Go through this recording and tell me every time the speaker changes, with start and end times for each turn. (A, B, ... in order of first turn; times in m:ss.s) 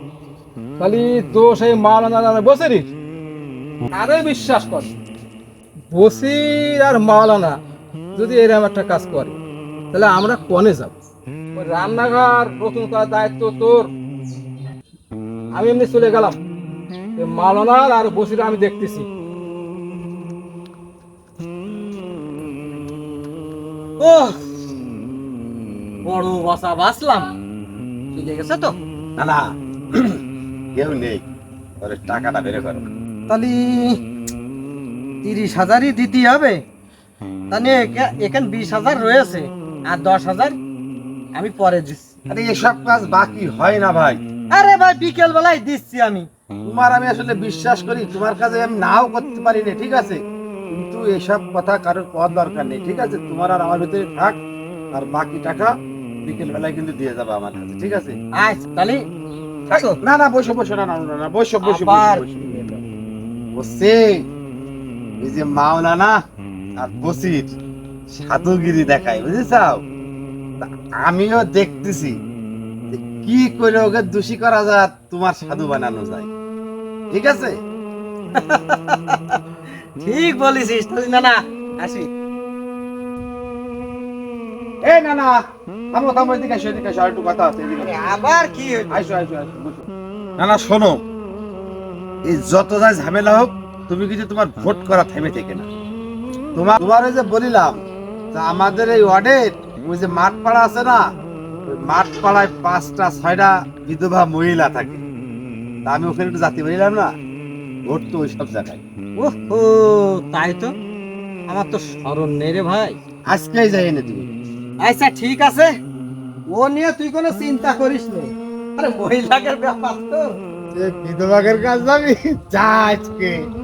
0:00.8-0:02.9 A
0:03.9-0:04.9 A
0:05.9-0:07.6 A
0:08.1-0:09.4 A
0:09.9-0:10.9 A
0:11.5-0:13.9 A
0:15.5-0:16.4 A
0:17.2-0:19.1 A
0:24.0-0:24.4 B
0:26.0-0:27.3 B
0:28.1-0:28.8 B
0:29.2-0:30.2 C
0:30.8-0:31.2 C
0:31.8-0:32.9 C
0:33.3-0:34.0 B
0:35.2-0:36.6 B
0:37.5-0:40.6 B
0:41.4-0:42.1 B
0:42.3-0:44.2 C
0:44.5-0:46.3 B
0:46.7-0:50.2 C
0:50.7-0:54.4 C
0:54.9-0:55.7 C
0:56.2-0:58.2 C
0:58.4-0:59.0 B
0:59.7-1:00.0 B
0:59.7-1:02.6 C
1:01.6-1:02.8 B
1:03.6-1:04.2 C
1:05.2-1:06.2 C
1:06.8-1:07.6 C
1:08.2-1:09.8 C
1:10.6-1:12.2 C
1:12.9-1:16.3 C
1:17.1-1:17.5 C
1:18.4-1:19.4 B
1:20.0-1:22.1 B
1:24.8-1:25.4 C
1:25.9-1:28.0 C
1:27.8-1:29.0 B
1:28.9-1:31.0 C
1:32.2-1:35.7 C
1:36.6-1:37.8 C
1:38.3-1:41.0 C
1:41.7-1:45.0 C
1:45.8-1:47.1 C
1:47.9-1:48.8 C
1:49.2-1:50.7 B
1:51.5-1:53.0 B
1:53.3-1:54.3 C
1:54.8-1:55.8 B
1:56.5-2:00.4 B
2:00.7-2:03.4 C